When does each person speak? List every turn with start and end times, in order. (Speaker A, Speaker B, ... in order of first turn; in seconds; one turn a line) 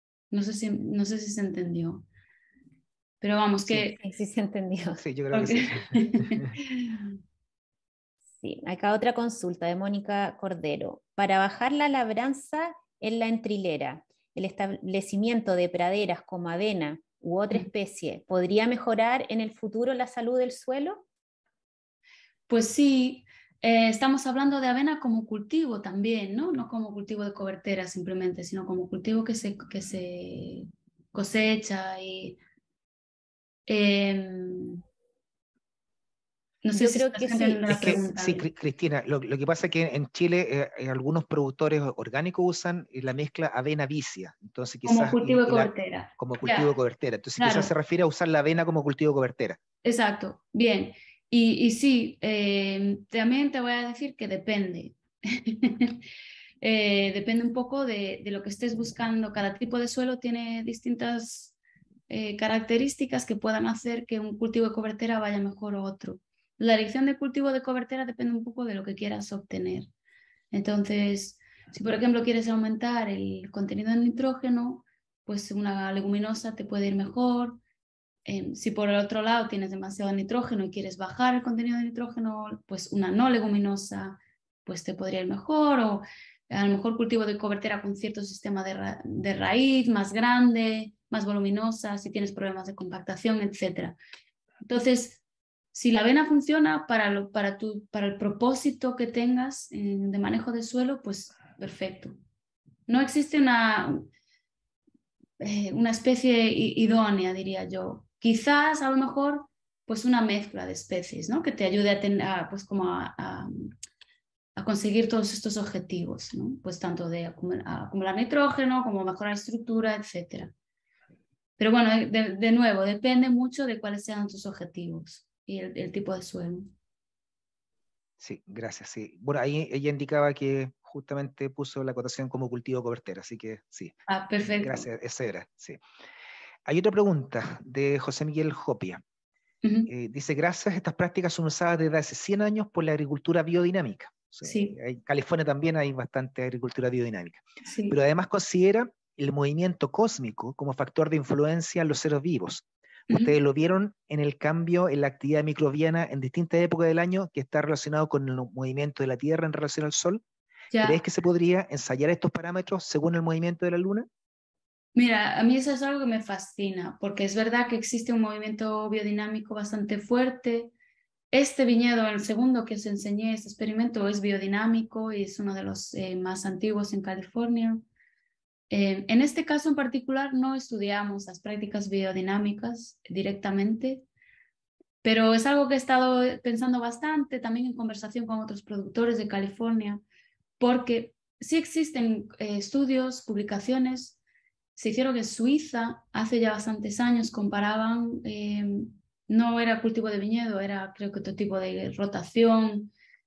Speaker A: 0.3-2.0
Speaker A: 3.2-4.0
Speaker B: 3.9-5.0
Speaker C: 5.0-6.5
Speaker A: 5.3-7.1
Speaker B: 8.4-21.1
Speaker A: 22.5-32.4
Speaker A: 33.7-34.8
Speaker A: 36.6-38.5
Speaker B: 36.7-38.0
Speaker C: 37.7-49.6
Speaker A: 44.9-46.8
Speaker A: 47.4-47.7
Speaker A: 49.8-56.0
Speaker A: 56.6-61.5
Speaker A: 62.1-69.9
Speaker A: 70.5-77.6
Speaker A: 78.3-94.0
Speaker A: 94.6-95.2
Speaker A: 95.7-102.2
Speaker A: 102.9-104.1
Speaker A: 105.4-113.7
Speaker A: 114.6-120.5
Speaker A: 121.6-126.7
Speaker C: 128.2-135.8
Speaker A: 134.1-134.9
Speaker C: 136.7-139.0
Speaker A: 139.6-139.9
Speaker C: 139.9-160.2
Speaker A: 144.4-144.8
Speaker A: 147.7-148.0
Speaker A: 153.1-153.3
Speaker A: 160.7-161.0
Speaker C: 160.8-164.1
Speaker A: 164.9-170.7
Speaker A: 171.3-177.8
Speaker A: 178.7-184.1
Speaker A: 185.0-190.0
Speaker A: 190.6-194.2
Speaker A: 194.8-202.9